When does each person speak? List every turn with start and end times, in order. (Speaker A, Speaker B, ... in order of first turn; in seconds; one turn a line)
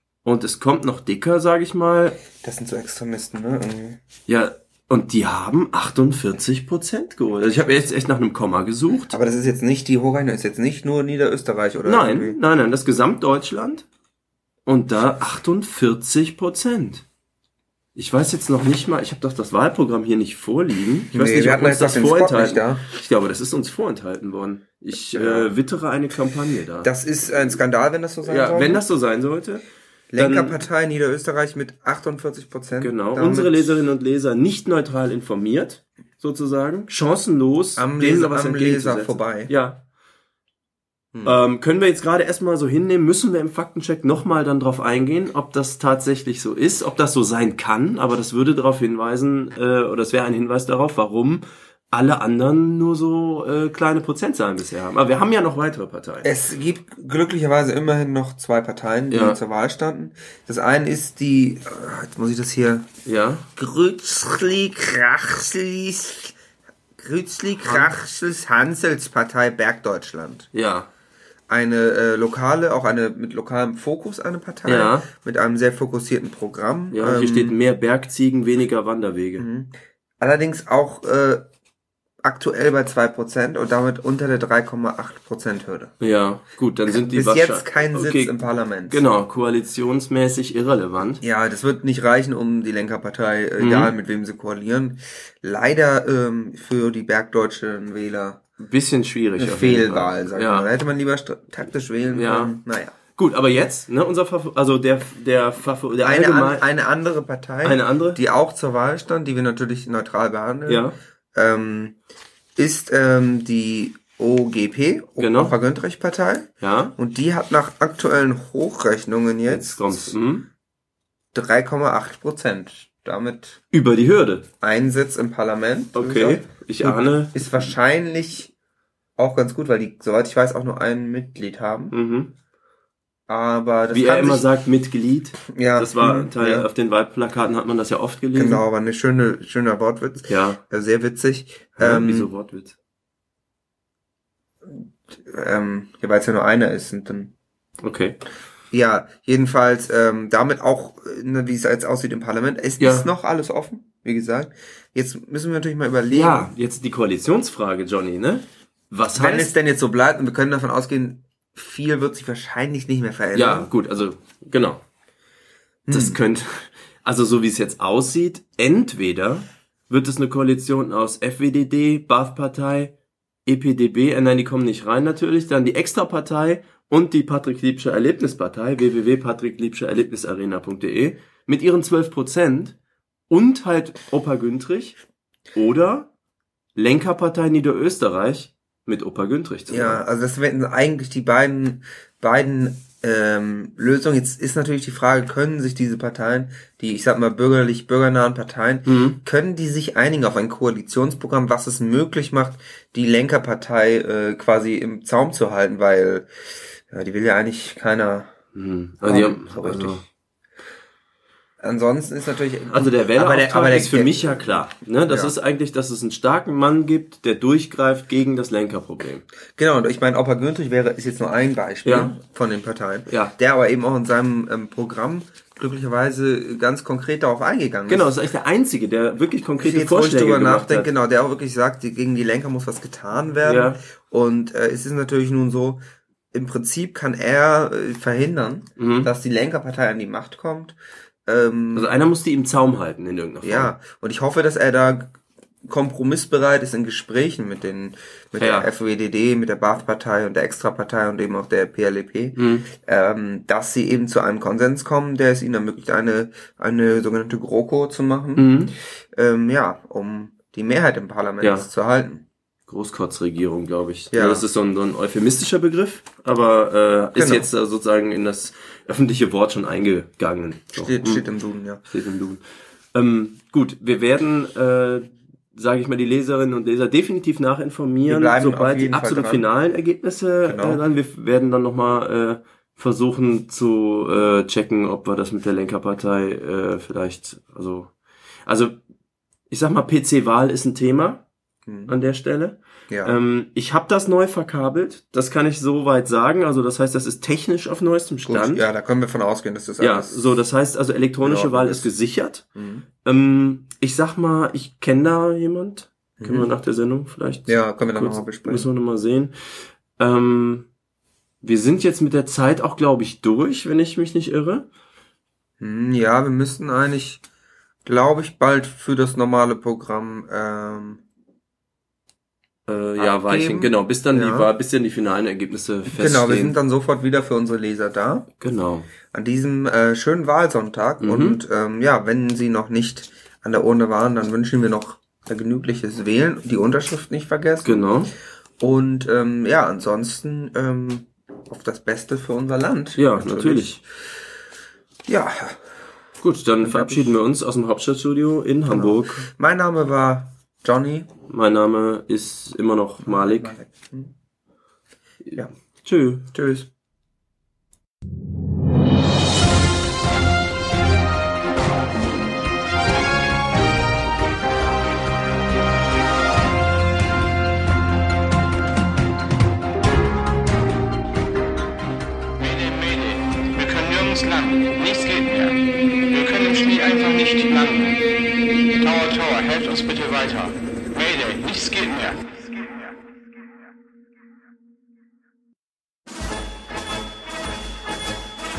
Speaker A: 0.2-2.2
Speaker B: 2.4-4.0
Speaker A: 4.3-9.2
Speaker B: 9.1-12.4
Speaker A: 11.8-13.9
Speaker A: 14.7-17.1
Speaker A: 18.0-26.9
Speaker B: 21.1-22.9
Speaker B: 25.1-25.5
Speaker B: 26.8-28.8
Speaker A: 28.2-29.6
Speaker B: 30.1-33.8
Speaker A: 30.2-30.6
Speaker A: 32.8-39.8
Speaker B: 37.8-39.5
Speaker A: 41.2-56.3
Speaker B: 56.2-62.9
Speaker A: 59.1-59.4
Speaker A: 63.0-63.5
Speaker B: 63.6-66.3
Speaker B: 67.0-70.5
Speaker A: 67.7-67.9
Speaker A: 70.5-70.9
Speaker B: 71.5-77.5
Speaker A: 74.7-75.1
Speaker A: 76.9-79.5
Speaker B: 79.4-81.4
Speaker B: 82.2-85.9
Speaker A: 86.0-88.3
Speaker B: 86.9-89.0
Speaker A: 88.9-91.2
Speaker B: 91.2-98.5
Speaker A: 93.6-93.9
Speaker A: 98.6-100.7
Speaker B: 99.4-103.0
Speaker A: 102.1-102.6
Speaker A: 103.2-106.6
Speaker B: 106.0-112.0
Speaker A: 107.6-108.2
Speaker A: 110.7-111.0
Speaker B: 112.6-120.2
Speaker A: 115.2-115.6
Speaker A: 116.6-117.0
Speaker A: 119.5-120.5
Speaker B: 121.3-123.6
Speaker A: 123.7-124.5
Speaker B: 124.6-128.5
Speaker A: 125.9-127.7
Speaker B: 129.2-131.9
Speaker A: 131.9-132.3
Speaker B: 133.3-134.5
Speaker A: 133.9-138.6
Speaker B: 135.4-136.7
Speaker B: 138.3-142.3
Speaker A: 140.3-140.6
Speaker A: 141.8-142.8
Speaker B: 144.7-147.3
Speaker A: 147.8-148.2
Speaker B: 148.7-156.5
Speaker A: 152.8-153.1
Speaker A: 156.1-159.5
Speaker B: 159.1-163.7
Speaker A: 163.3-164.8
Speaker B: 165.9-166.2
Speaker A: 165.9-172.9
Speaker A: 173.5-182.8
Speaker A: 183.3-185.0
Speaker A: 185.5-186.1
Speaker A: 186.8-190.0
Speaker B: 189.7-208.3
Speaker A: 198.8-199.2
Speaker A: 208.6-210.0
Speaker B: 209.1-210.1
Speaker B: 211.6-215.3
Speaker A: 212.7-219.3
Speaker B: 219.6-228.2
Speaker A: 221.8-222.2
Speaker A: 223.1-223.3
Speaker A: 227.9-230.9
Speaker B: 229.6-235.8
Speaker A: 233.4-233.8
Speaker B: 236.3-241.9
Speaker A: 238.8-239.1
Speaker A: 241.7-243.7
Speaker B: 243.4-258.6
Speaker A: 248.4-248.7
Speaker A: 252.4-252.7
Speaker A: 258.4-258.7
Speaker B: 259.1-262.2
Speaker A: 261.4-261.7
Speaker A: 262.7-271.3
Speaker B: 264.1-264.4
Speaker B: 267.2-267.5
Speaker B: 270.8-271.8
Speaker A: 271.9-287.9
Speaker B: 278.1-279.4
Speaker B: 280.4-280.8
Speaker A: 288.5-288.8
Speaker A: 289.5-291.2
Speaker B: 291.7-291.9
Speaker A: 291.9-298.7
Speaker B: 292.9-293.2
Speaker B: 298.3-300.2
Speaker A: 299.8-302.5
Speaker B: 301.2-301.9
Speaker B: 302.6-302.9
Speaker A: 303.0-309.4
Speaker B: 306.2-306.5
Speaker B: 307.5-308.7
Speaker A: 310.0-310.7
Speaker A: 311.4-314.7
Speaker B: 315.6-317.2
Speaker B: 317.9-321.0
Speaker A: 322.7-326.6
Speaker B: 323.0-324.5
Speaker B: 325.9-328.3
Speaker A: 328.4-328.9
Speaker B: 329.1-337.9
Speaker A: 331.0-331.4
Speaker A: 337.6-338.1
Speaker B: 338.6-343.8
Speaker A: 343.0-343.8
Speaker B: 345.1-345.6
Speaker A: 346.2-349.3
Speaker B: 346.6-347.1
Speaker B: 348.7-351.1
Speaker A: 351.3-353.5
Speaker B: 353.0-354.1
Speaker A: 355.3-356.3
Speaker B: 356.3-356.7
Speaker C: 372.4-378.1
Speaker C: 378.7-382.9